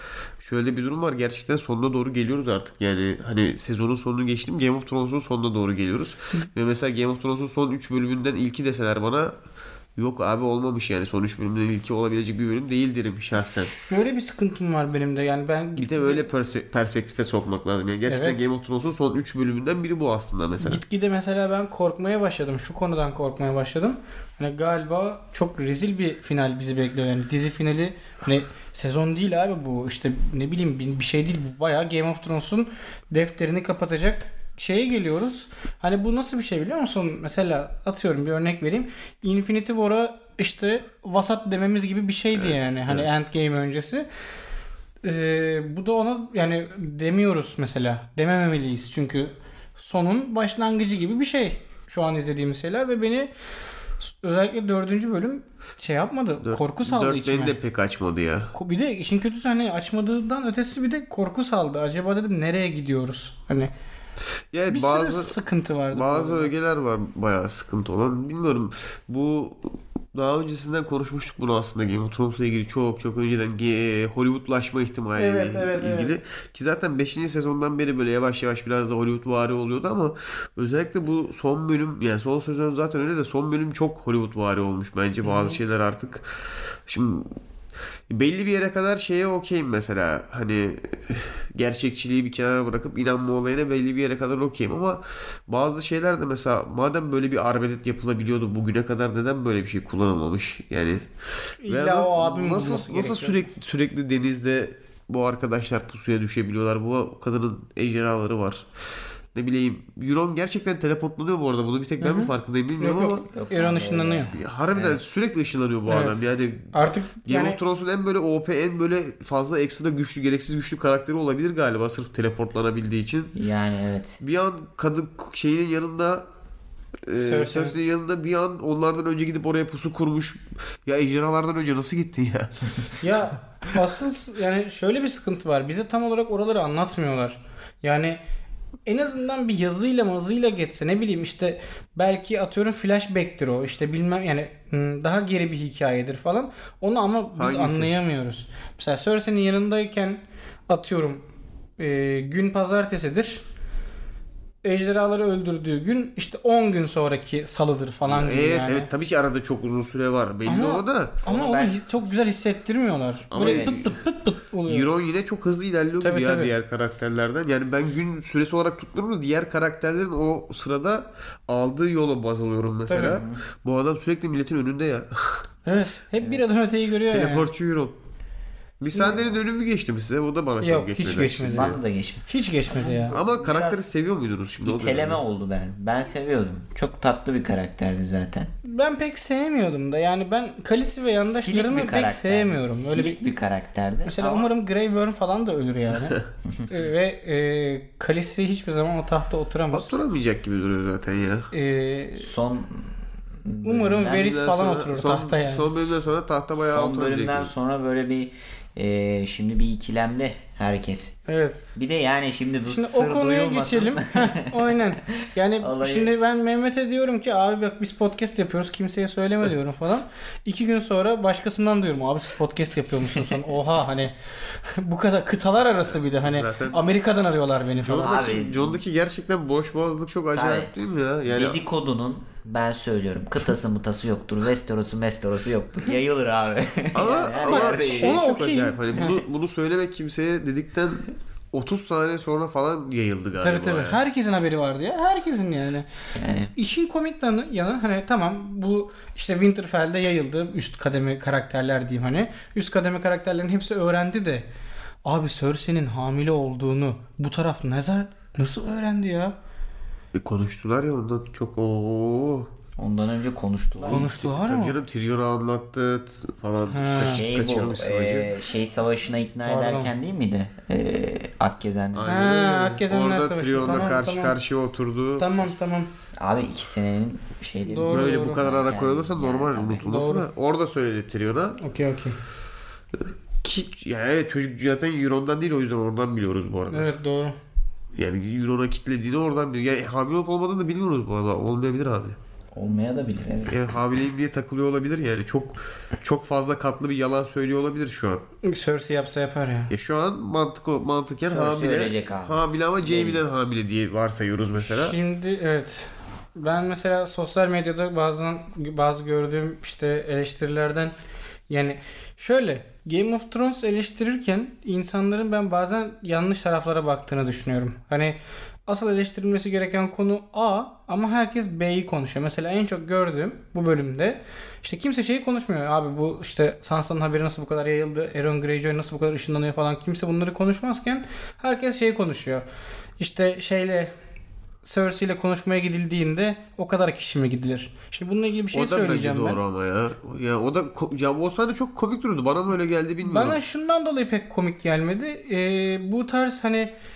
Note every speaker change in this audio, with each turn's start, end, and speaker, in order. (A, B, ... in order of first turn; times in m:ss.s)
0:00.4-0:09.3 A
0:10.0-0:13.7 A
0:13.4-0:16.3 B
0:15.8-0:20.8 A
0:18.1-0:18.4 B
0:20.6-0:44.0 B
0:42.4-0:43.1 A
0:45.0-0:53.3 B
0:54.0-0:57.6 B
0:56.4-0:58.5 A
0:58.5-1:03.7 B
1:04.5-1:05.4 A
1:04.7-1:06.5 B
1:05.9-1:26.3 A
1:15.2-1:16.2 B
1:25.2-1:25.6 B
1:26.9-1:27.3 A
1:28.1-1:41.0 A
1:41.6-1:43.5 B
1:41.7-1:48.6 A
1:49.4-1:53.2 A
1:52.0-1:54.3 B
1:53.3-1:55.0 C
1:54.3-1:56.7 A
1:55.9-1:56.2 B
1:56.7-1:57.6 B
1:57.3-2:03.3 A
2:03.4-2:04.2 C
2:04.2-2:06.2 A
2:07.1-2:13.0 A
2:07.2-2:07.8 B
2:13.0-2:18.2 B
2:18.9-2:31.2 B
2:27.4-2:27.9 A
2:31.8-2:33.4 B
2:34.6-2:38.9 B
2:38.1-2:41.8 A
2:40.5-2:44.9 B
2:43.3-2:44.0 A
2:43.4-2:43.8 C
2:44.7-2:55.4 A
2:46.0-2:46.5 B
2:52.9-2:53.2 B
2:53.0-2:53.4 C
2:55.7-2:57.5 B
2:57.1-2:57.9 A
2:58.8-3:01.8 A
2:58.9-2:59.2 B
3:00.6-3:01.7 B
3:01.4-3:03.9 C
3:02.3-3:03.1 B
3:03.1-3:05.2 A
3:04.6-3:08.5 C
3:08.6-3:13.3 B
3:11.2-3:14.5 C
3:14.1-3:20.0 B
3:19.7-3:21.5 A
3:21.5-3:22.4 B
3:22.2-3:22.9 C
3:23.4-3:24.3 C
3:23.6-3:25.7 B
3:24.1-3:27.5 A
3:26.6-3:31.2 C
3:31.3-3:31.6 B
3:31.8-3:36.1 C
3:32.7-3:48.2 B
3:43.1-3:43.4 C
3:46.1-3:46.8 A
3:47.8-3:51.6 A
3:47.9-3:48.8 C
3:50.3-3:50.7 C
3:51.2-3:58.2 C
3:57.0-4:04.0 A
3:57.5-3:59.2 B
4:03.4-4:05.9 B
4:06.2-4:06.5 C
4:06.6-4:14.4 B
4:15.0-4:19.4 B
4:20.1-4:22.5 A
4:22.8-4:24.1 C
4:23.8-4:24.8 B
4:23.9-4:28.3 A
4:26.7-4:27.2 B
4:27.1-4:32.3 C
4:29.5-4:29.9 B
4:31.9-4:35.4 A
4:32.1-4:34.4 B
4:35.2-4:35.9 B
4:36.2-4:39.9 C
4:37.7-4:38.4 B
4:37.9-4:41.6 A
4:39.9-4:40.3 B
4:41.6-4:42.2 B
4:43.0-4:46.9 A
4:46.7-4:47.4 B
4:48.0-4:52.2 A
4:52.5-4:53.8 C
4:53.5-4:58.2 A
4:58.4-4:59.7 B
4:59.7-5:05.0 A
5:01.3-5:03.2 C
5:04.6-5:10.9 B
5:11.5-5:32.4 B
5:33.0-5:33.9 B
5:34.6-5:39.4 B
5:38.5-5:43.4 A
5:43.0-5:46.7 B